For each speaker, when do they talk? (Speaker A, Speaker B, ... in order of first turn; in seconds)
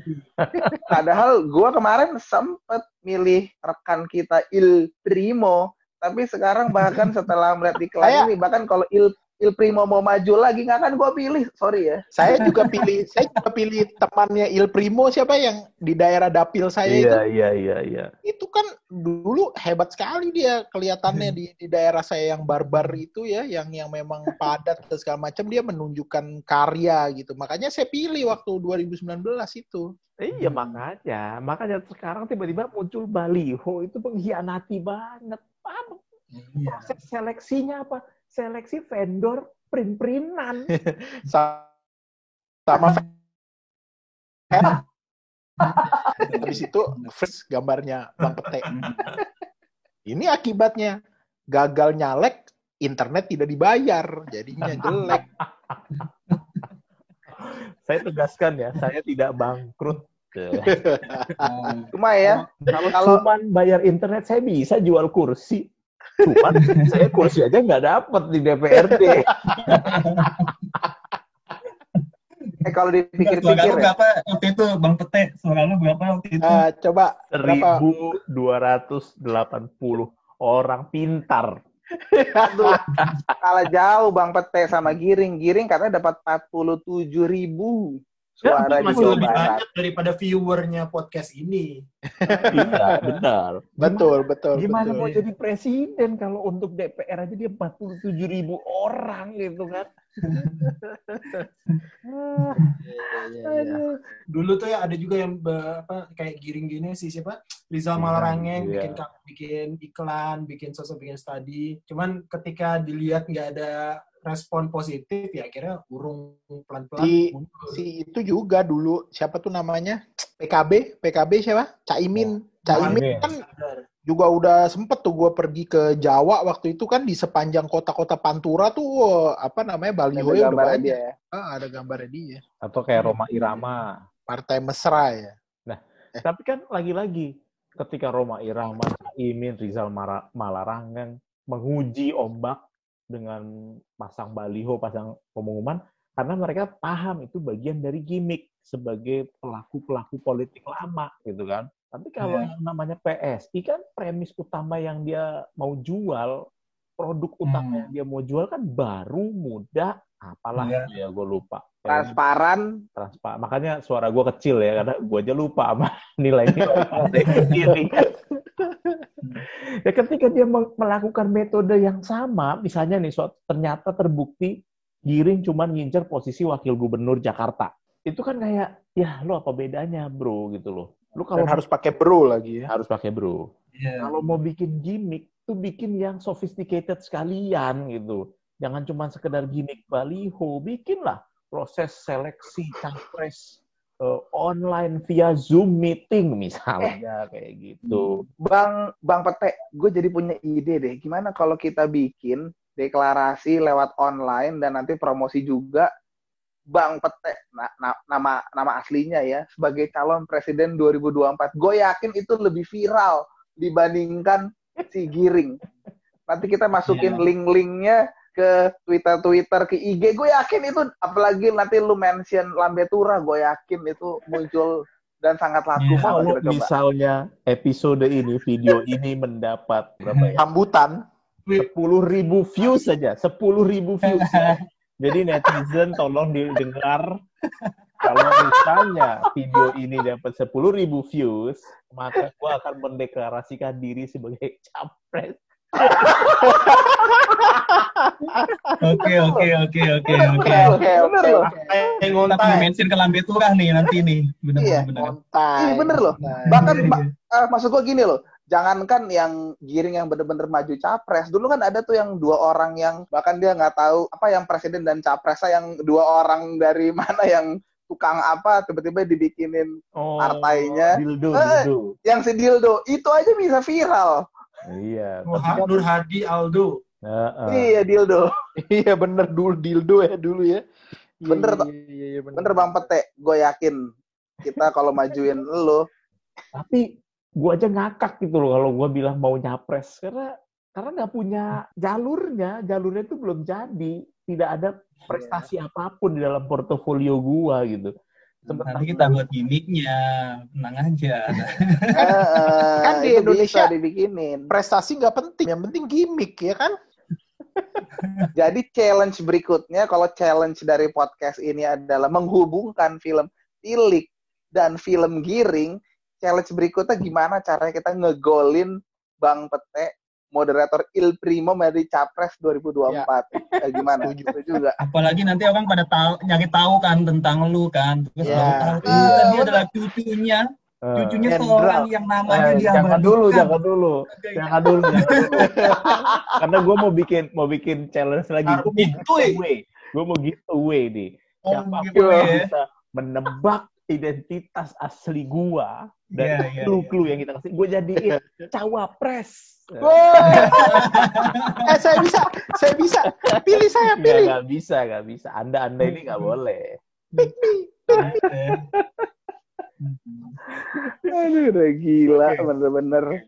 Speaker A: 0.5-0.8, 16.9-18.1, 30.2-36.1, 36.6-40.7, 54.8-55.8, 57.4-61.4, 62.2-65.7, 66.2-69.9, 77.3-81.6, 82.9-83.2, 88.4-89.5, 92.5-99.9, 102.0-102.7, 103.5-103.9, 108.0-109.0, 122.2-123.3, 132.6-134.0, 135.7-143.4, 144.0-156.4, 157.0-162.2, 162.9-168.6, 169.5-174.5, 175.1-181.6, 182.7-183.4, 184.0-198.2, 226.0-230.4, 231.6-237.1, 238.0-246.9, 270.0-271.9, 274.6-275.8, 277.1-277.7, 286.5-286.8, 287.4-297.9, 298.5-298.9, 323.4-323.9, 328.2-329.3, 330.8-331.3, 332.3-335.8, 336.4-351.4, 353.2-357.3, 360.8-361.1, 362.1-362.5
Speaker B: 0.9-12.0, 61.9-63.2, 72.7-73.9, 83.4-89.6, 130.1-131.1, 161.9-162.7, 198.4-205.9, 206.7-215.6, 216.3-226.7, 245.8-246.6, 249.2-249.5, 250.1-251.5, 254.6-254.9, 255.6-274.2, 277.5-278.2, 281.3-281.7, 282.4-283.8, 284.4-285.9, 295.1-295.4, 301.9-304.5, 308.4-324.8, 335.6-336.4, 361.1-363.1
Speaker C: 8.0-8.3, 12.1-17.2, 18.2-29.9, 40.7-41.7, 42.7-43.0, 44.5-44.8, 46.4-49.2, 50.1-50.9, 51.5-55.2, 60.6-61.5, 68.8-69.8, 76.4-77.8, 81.9-83.1, 92.1-93.1, 93.8-95.0, 101.1-101.5, 102.8-103.8, 117.0-123.4, 124.1-132.4, 133.0-133.7, 134.3-135.4, 181.3-182.7, 230.4-231.0, 246.5-248.8, 250.1-252.1, 254.9-256.8, 278.6-280.6, 281.2-282.9, 302.8-303.7, 304.5-306.7, 323.9-324.6, 328.2-329.4, 331.3-331.9, 335.4-335.9, 348.0-348.5, 349.8-351.0, 351.6-354.4, 357.2-358.3
Speaker D: 12.3-12.9, 36.3-36.9, 45.6-47.1, 48.7-49.2, 54.7-55.2, 55.9-56.6, 61.4-61.9, 66.6-67.1, 69.6-70.5, 73.2-76.6, 95.0-95.2, 100.2-100.7, 152.2-152.5, 157.4-157.9, 160.6-160.9, 167.0-167.7, 183.7-184.1, 197.9-198.2, 216.9-217.3, 225.8-226.1, 230.1-230.3, 234.1-234.6, 248.8-250.8, 252.2-255.1, 256.3-257.0, 298.5-302.6, 308.0-308.3, 324.8-330.4, 330.9-333.6, 334.1-335.5, 341.5-342.5, 346.1-347.0, 350.3-351.7, 355.9-356.3, 357.9-358.6, 359.8-360.4
Speaker E: 82.4-82.8, 88.6-91.7, 92.2-93.1, 104.3-117.8, 122.7-123.8, 251.4-252.7, 275.3-276.8, 338.4-339.4